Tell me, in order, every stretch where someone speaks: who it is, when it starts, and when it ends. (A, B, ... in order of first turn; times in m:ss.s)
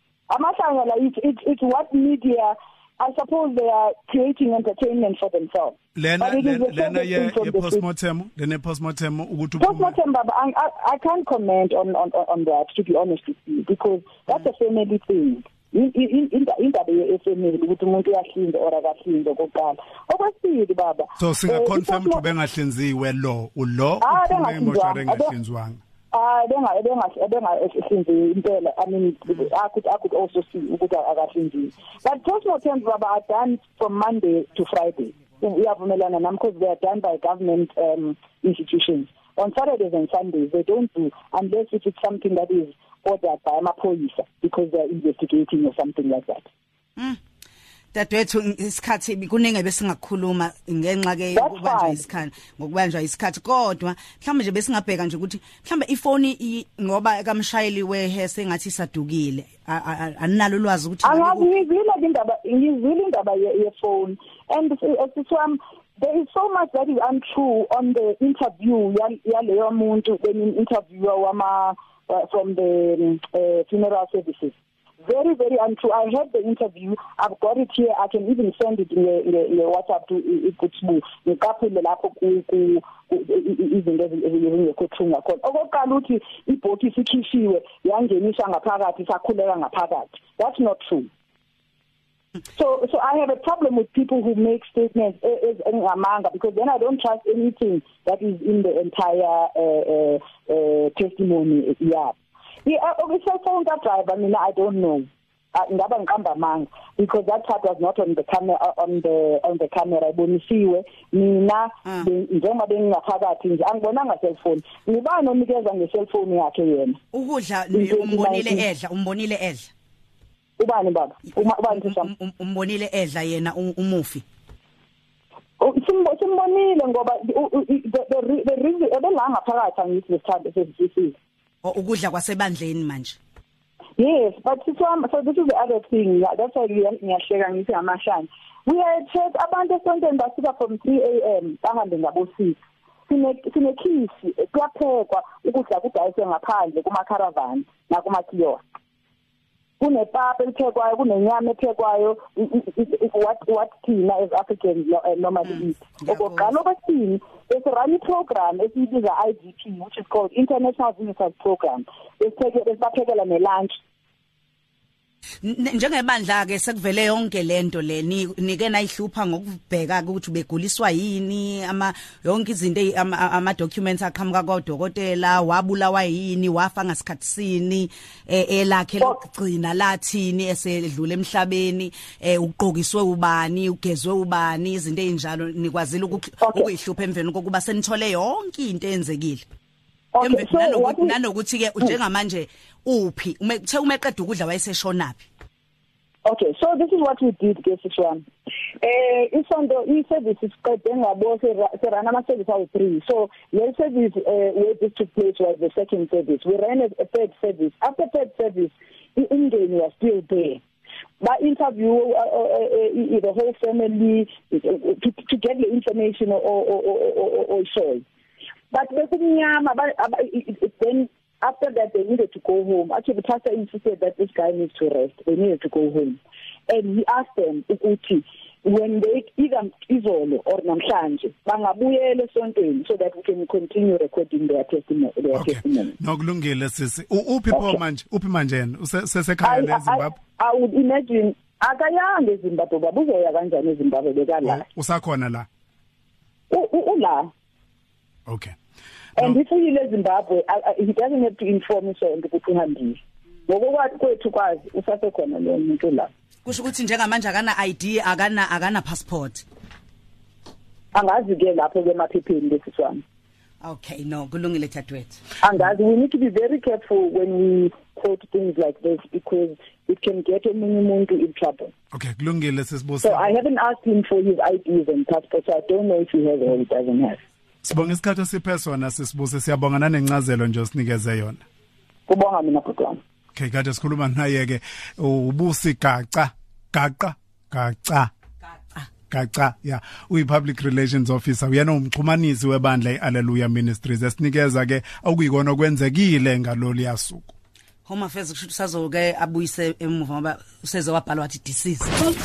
0:00.3-0:07.8 A
0:06.0-0:10.0 B
0:09.6-0:22.2 A
0:21.2-0:25.8 B
0:24.0-0:25.3 A
0:26.1-0:46.5 A
0:47.9-1:01.5 C
0:51.3-0:52.0 A
1:01.0-1:31.1 A
1:32.5-1:57.0 A
1:57.1-1:59.7 C
1:57.7-1:58.6 A
2:00.6-2:02.1 A
2:01.7-2:04.2 C
2:05.6-2:11.2 A
2:11.6-2:13.2 C
2:14.0-2:28.6 A
2:29.8-2:43.8 A
2:35.5-2:36.5 C
2:45.4-3:09.4 C
3:06.4-3:06.7 A
3:10.1-3:11.2 A
3:10.2-3:15.3 C
3:16.2-3:18.2 A
3:18.8-3:30.6 A
3:31.2-3:38.0 A
3:38.7-3:56.0 A
3:55.3-4:00.2 B
3:59.4-4:04.6 A
4:04.4-4:05.5 B
4:06.5-4:07.3 A
4:08.3-4:08.6 B
4:09.2-4:16.1 A
4:16.5-4:19.4 C
4:20.9-4:23.0 A
4:23.6-4:25.2 C
4:25.4-4:31.7 A
4:31.9-4:33.4 B
4:33.0-4:37.2 A
4:37.6-4:41.4 B
4:42.1-4:43.0 A
4:43.3-4:48.1 B
4:49.1-4:57.3 B
4:57.8-5:02.0 C